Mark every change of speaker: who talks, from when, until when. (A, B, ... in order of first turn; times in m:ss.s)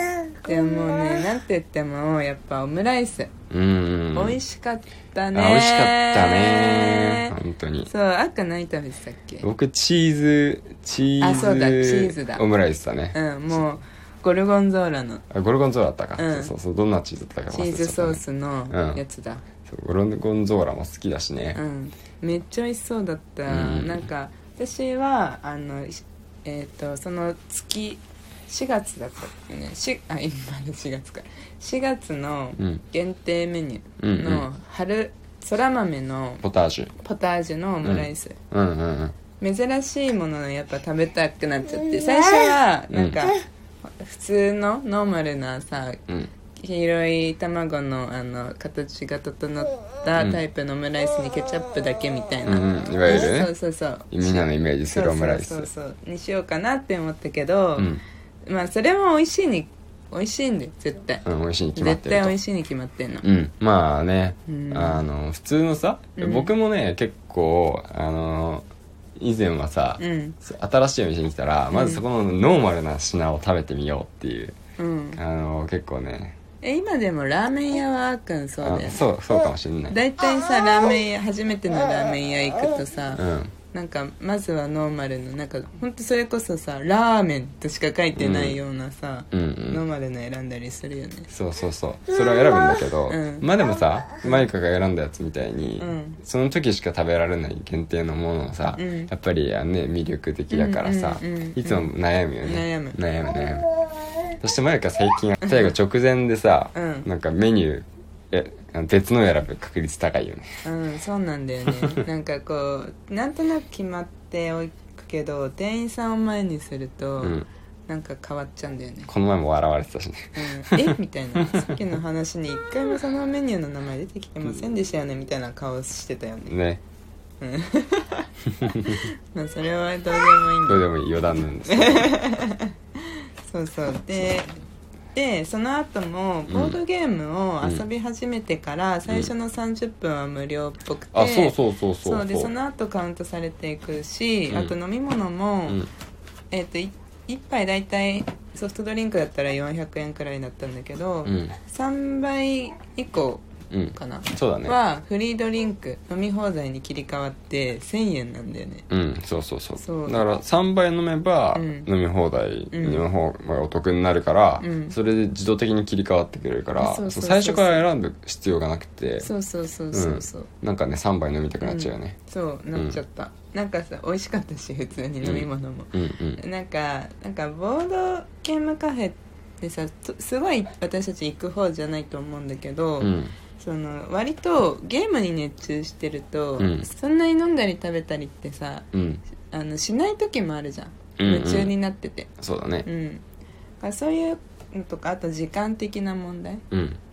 0:00.4-0:03.3 A
0:03.5-0:04.4 B
0:04.1-0:07.3 A
0:05.3-0:07.9 B
0:07.8-0:09.4 A
0:09.4-0:13.5 B
0:11.2-0:12.4 A
0:13.1-0:15.2 A
0:15.3-0:19.0 B
0:16.2-0:16.5 A
0:17.5-0:19.4 A
0:19.6-0:21.6 B
0:21.5-0:36.4 A
0:23.5-0:24.1 B
0:32.6-0:32.8 B
0:34.0-0:34.4 B
0:36.4-0:36.9 B
0:37.0-0:38.4 A
0:37.8-0:39.2 B
0:39.4-0:46.0 A
0:42.9-0:43.2 B
0:46.5-0:57.9 A
0:52.4-0:53.5 B
0:54.1-0:55.7 B
0:57.8-0:58.0 B
0:58.4-1:01.2 A
1:01.2-1:02.3 B
1:01.8-1:03.2 A
1:03.2-1:08.6 B
1:04.4-1:05.0 A
1:06.2-1:06.5 A
1:09.2-1:14.6 B
1:10.0-1:10.4 A
1:11.7-1:12.0 A
1:14.8-1:15.2 A
1:15.1-1:16.4 B
1:16.6-1:19.0 A
1:18.6-1:20.0 B
1:19.9-1:31.3 A
1:23.1-1:23.5 B
1:28.2-1:28.6 B
1:29.3-1:29.8 B
1:31.3-1:43.7 B
1:33.1-1:33.5 A
1:35.8-1:36.2 A
1:38.7-1:39.1 A
1:40.5-1:41.9 A
1:42.4-1:43.0 A
1:44.4-1:50.6 B
1:46.7-1:47.1 A
1:50.6-1:59.1 A
1:57.2-1:57.5 B
1:59.1-2:00.9 B
2:00.3-2:06.5 A
2:06.5-2:06.8 B
2:07.4-2:10.8 A
2:08.6-2:09.0 B
2:10.6-2:12.1 B
2:11.4-2:14.5 A
2:15.1-2:25.8 A
2:16.5-2:16.8 B
2:21.1-2:22.5 B
2:24.5-2:24.7 B
2:26.5-2:38.8 A
2:31.2-2:31.5 B
2:33.7-2:34.8 B
2:38.9-2:49.3 B
2:39.8-2:40.2 A
2:41.5-2:41.9 A
2:42.7-2:43.0 A
2:44.6-2:44.9 A
2:46.8-2:47.8 A
2:49.2-2:50.5 A
2:49.9-2:52.2 B
2:51.6-3:08.9 A
2:52.7-2:53.0 B
2:55.2-2:56.4 B
3:03.0-3:03.3 B
3:06.6-3:06.9 B
3:08.9-3:09.2 B
3:09.5-3:12.3 A
3:11.2-3:11.7 B
3:12.4-3:12.9 B
3:12.8-3:13.2 A
3:13.8-3:16.6 A
3:16.7-3:17.0 B